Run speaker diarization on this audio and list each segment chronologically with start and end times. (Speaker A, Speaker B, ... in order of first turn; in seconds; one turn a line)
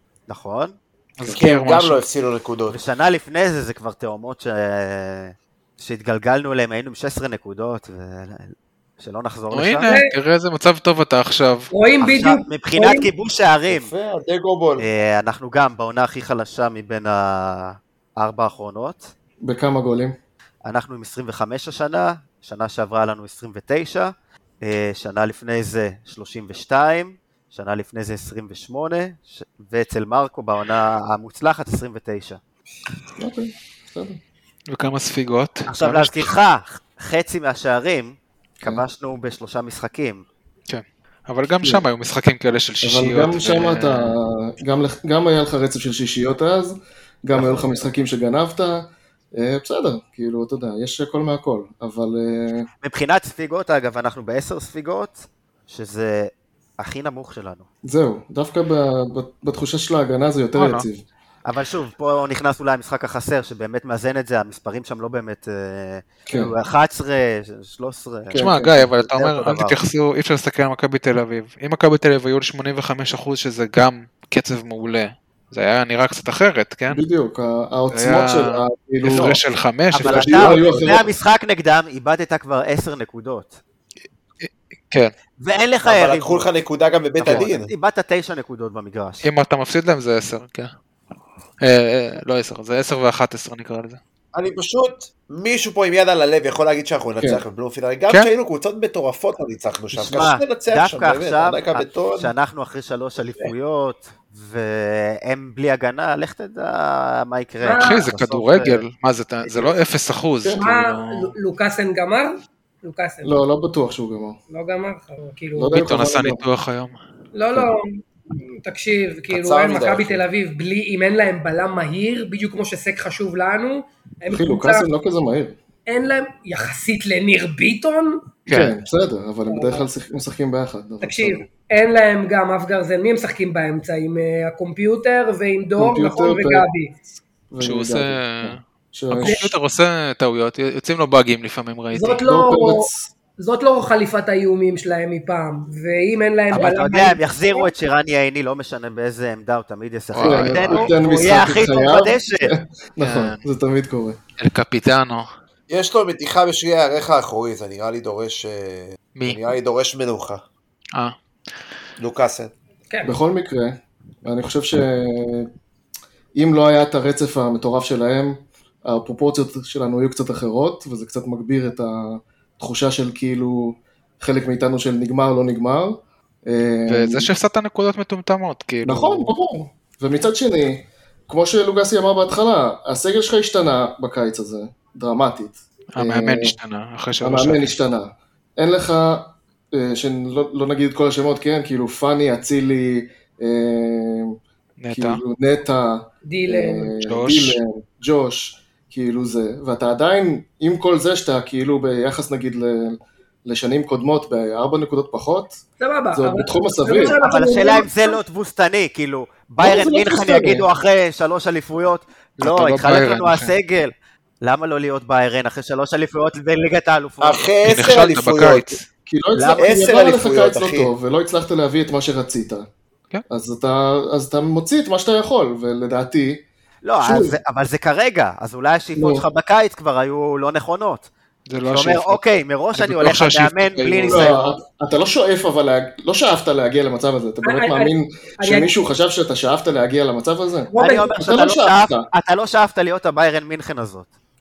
Speaker A: 0.3-0.8
Speaker B: 1.2-2.0
Speaker C: 1.3-2.8
Speaker A: 2.7-9.8
Speaker B: 9.5-11.7
Speaker D: 9.8-10.1
Speaker D: 11.7-13.1
Speaker A: 12.0-13.9
Speaker C: 13.7-14.8
Speaker A: 14.8-19.1
Speaker E: 19.4-20.1
Speaker A: 20.6-32.4
Speaker E: 33.2-34.2
Speaker B: 34.7-36.3
Speaker A: 35.7-40.2
Speaker B: 40.7-44.2
Speaker E: 42.8-52.7
Speaker A: 47.3-47.8
Speaker A: 52.8-57.7
Speaker E: 57.8-61.0
Speaker B: 60.5-60.9
Speaker A: 61.4-68.5
Speaker E: 68.3-68.9
Speaker B: 68.3-77.0
Speaker A: 69.0-69.8
Speaker E: 76.9-79.4
Speaker B: 77.9-80.9
Speaker A: 79.1-79.4
Speaker A: 79.9-83.6
Speaker E: 80.0-81.1
Speaker B: 84.4-85.1
Speaker A: 85.4-86.5
Speaker C: 85.8-87.7
Speaker A: 87.2-89.2
Speaker B: 89.2-90.7
Speaker B: 91.6-94.0
Speaker C: 94.3-102.3
Speaker A: 99.9-108.8
Speaker D: 107.6-108.0
Speaker B: 107.8-111.3
Speaker A: 109.4-109.7
Speaker D: 110.5-113.4
Speaker E: 113.2-114.4
Speaker D: 114.5-115.8
Speaker E: 115.5-116.4
Speaker B: 115.7-117.0
Speaker D: 117.3-124.9
Speaker C: 119.3-120.2
Speaker E: 124.3-125.6
Speaker D: 125.9-128.2
Speaker B: 128.5-128.7
Speaker E: 128.5-131.5
Speaker D: 129.5-129.9
Speaker D: 131.0-136.9
Speaker E: 135.8-136.7
Speaker E: 137.5-139.5
Speaker B: 137.6-138.6
Speaker B: 139.1-142.2
Speaker D: 139.2-139.5
Speaker D: 141.9-147.7
Speaker E: 142.2-143.1
Speaker A: 146.5-152.5
Speaker B: 150.1-150.9
Speaker E: 150.2-154.2
Speaker B: 153.0-153.4
Speaker B: 154.4-155.3
Speaker C: 155.7-160.4
Speaker B: 159.2-159.5
Speaker C: 162.0-162.5
Speaker D: 162.9-163.2
Speaker E: 163.0-165.5
Speaker E: 166.3-177.3
Speaker B: 176.9-179.3
Speaker E: 178.8-186.6
Speaker B: 185.9-187.7
Speaker E: 187.2-194.4
Speaker B: 194.8-195.2
Speaker E: 194.9-205.6
Speaker D: 196.2-196.9
Speaker B: 197.0-197.6
Speaker D: 205.8-208.2
Speaker E: 206.1-207.2
Speaker A: 207.0-217.4
Speaker E: 209.6-210.7
Speaker B: 212.4-213.5
Speaker C: 217.2-218.8
Speaker B: 217.6-218.8
Speaker E: 219.1-222.7
Speaker A: 219.3-219.7
Speaker C: 219.6-220.9
Speaker E: 223.3-226.4
Speaker A: 226.8-231.1
Speaker E: 227.0-227.4
Speaker E: 228.9-229.2
Speaker B: 231.5-232.2
Speaker A: 231.7-234.4
Speaker B: 232.7-234.3
Speaker E: 234.0-242.1
Speaker D: 237.4-238.7
Speaker D: 240.7-241.2
Speaker A: 240.8-244.1